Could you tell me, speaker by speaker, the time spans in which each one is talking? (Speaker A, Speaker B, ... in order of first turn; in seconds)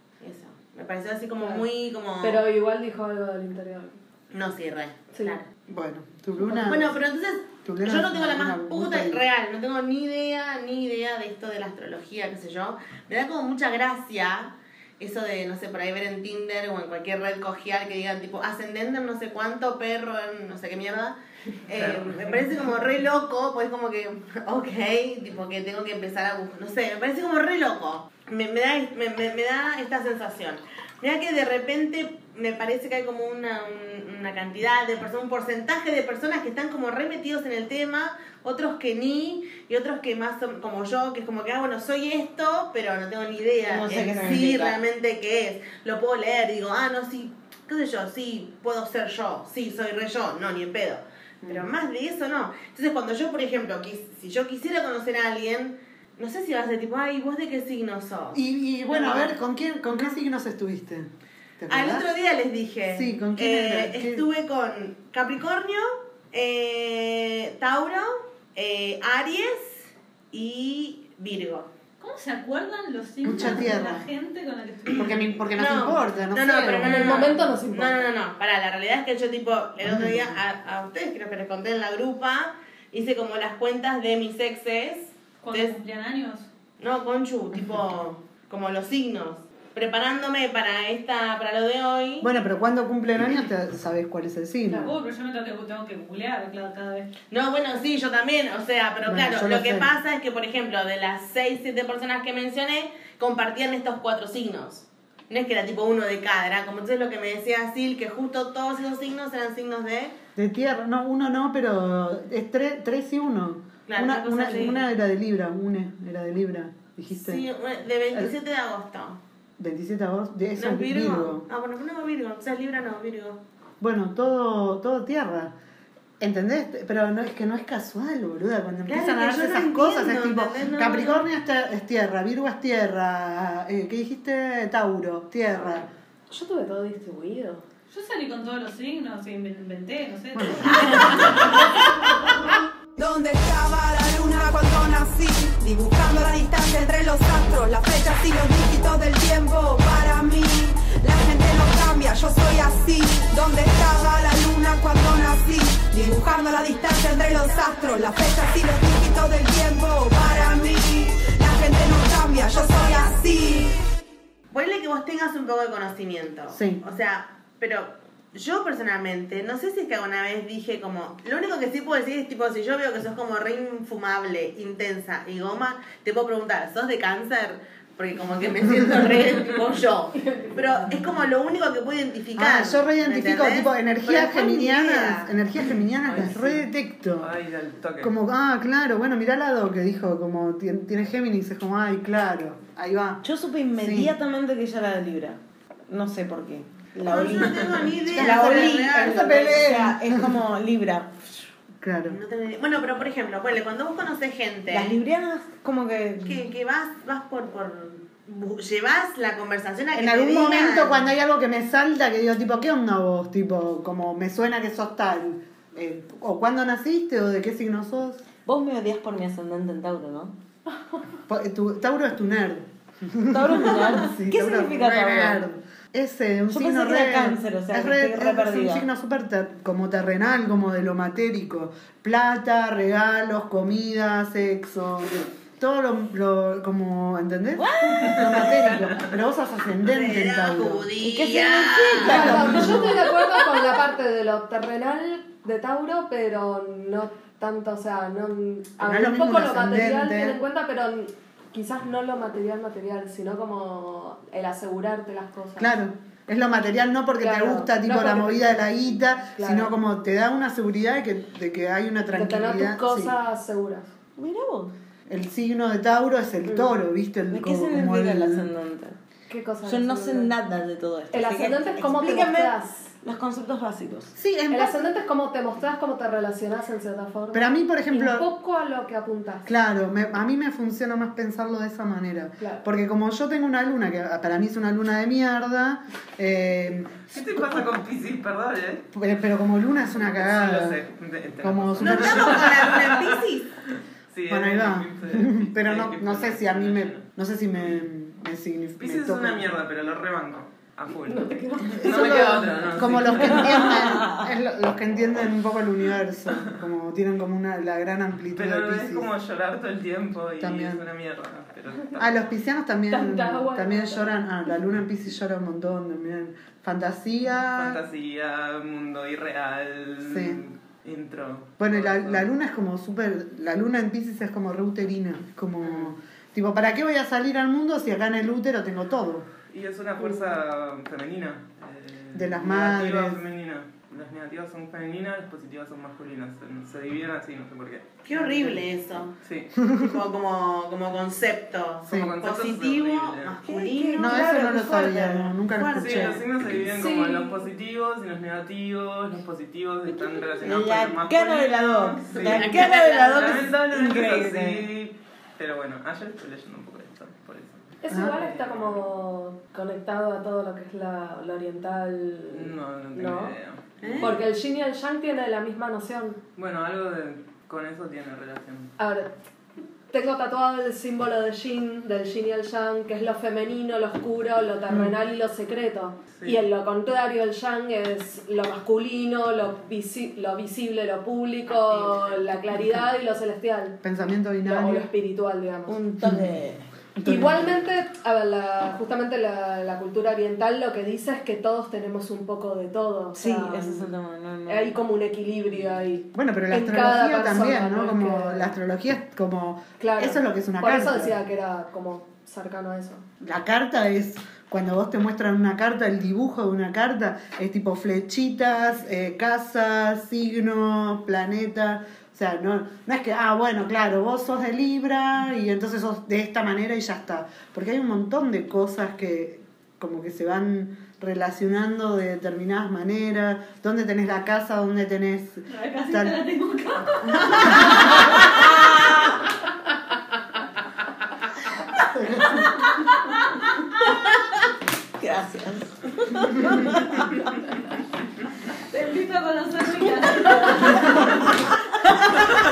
Speaker A: 0.2-2.4, 4.3-5.5, 6.4-21.1, 21.6-59.3, 61.7-71.7, 75.5-85.7, 86.8-92.3, 97.3-110.2, 113.9-114.8, 117.1-119.2, 120.6-123.4, 128.9-131.2, 164.5-185.4, 186.1-186.6, 197.1-199.7, 202.1-205.0, 206.2-211.1, 239.8-242.4, 291.8-293.6, 338.0-339.1, 339.7-344.3, 345.8-346.2, 352.1-353.4
Speaker B: 1.4-1.7, 2.2-4.0, 76.8-78.1, 136.3-137.6, 180.1-180.9, 242.0-255.7, 257.2-259.7, 262.1-263.9, 266.4-266.7, 269.3-270.3, 271.1-272.9, 274.5-279.5, 301.0-302.3, 312.9-314.2, 346.7-347.5, 357.8-363.4, 364.0-366.2, 368.8-369.1, 369.9-383.8, 384.4-385.8, 387.0-393.9, 394.5-398.6, 399.8-403.0
Speaker C: 5.7-7.0, 7.6-9.2, 51.4-51.7, 58.3-62.1, 62.9-64.2, 73.2-74.1, 74.9-77.3, 79.8-80.4, 92.2-94.9, 99.0-99.9, 110.3-117.5, 119.6-121.4, 123.8-125.5, 126.2-135.9, 140.3-141.3, 166.5-166.8, 182.3-187.3, 188.0-193.2, 193.8-194.1, 198.1-200.3, 201.8-202.2, 209.9-218.2, 221.3-240.9, 242.0-243.0, 248.8-250.4, 255.6-263.1, 265.1-268.5, 274.1-274.9, 277.3-278.3, 279.4-287.6, 288.9-290.8, 291.4-292.7, 294.3-299.5, 301.8-309.1, 310.4-310.8, 312.0-317.8, 320.0-320.4, 321.6-329.3, 332.1-333.2, 341.9-342.2, 344.0-346.2, 357.9-358.2, 374.7-374.9, 383.8-384.9, 386.9-387.6, 396.1-401.2, 403.2-426.2, 427.1-427.7, 431.8-432.6
Speaker D: 21.8-22.4, 187.2-188.1, 287.1-288.9, 290.0-293.1, 294.1-297.1, 298.8-304.0, 308.3-312.3, 317.5-322.3, 329.5-338.6, 339.2-339.5, 341.9-343.4, 345.7-358.8, 362.3-364.2, 366.4-368.7, 376.1-376.4
Speaker E: 43.6-44.8, 193.2-201.3, 204.7-206.4, 218.4-220.3, 223.3-225.4, 226.5-228.8, 237.6-238.6, 241.0-242.9, 264.2-264.7, 267.3-269.0, 269.6-274.1, 343.4-345.8, 350.4-354.7, 385.7-386.6, 393.1-394.8, 428.4-429.1, 435.0-437.2, 439.6-441.9
Speaker F: 72.0-75.4, 85.4-86.5, 94.7-97.1, 137.9-141.7, 425.5-428.4, 438.7-441.3
Speaker G: 142.9-163.8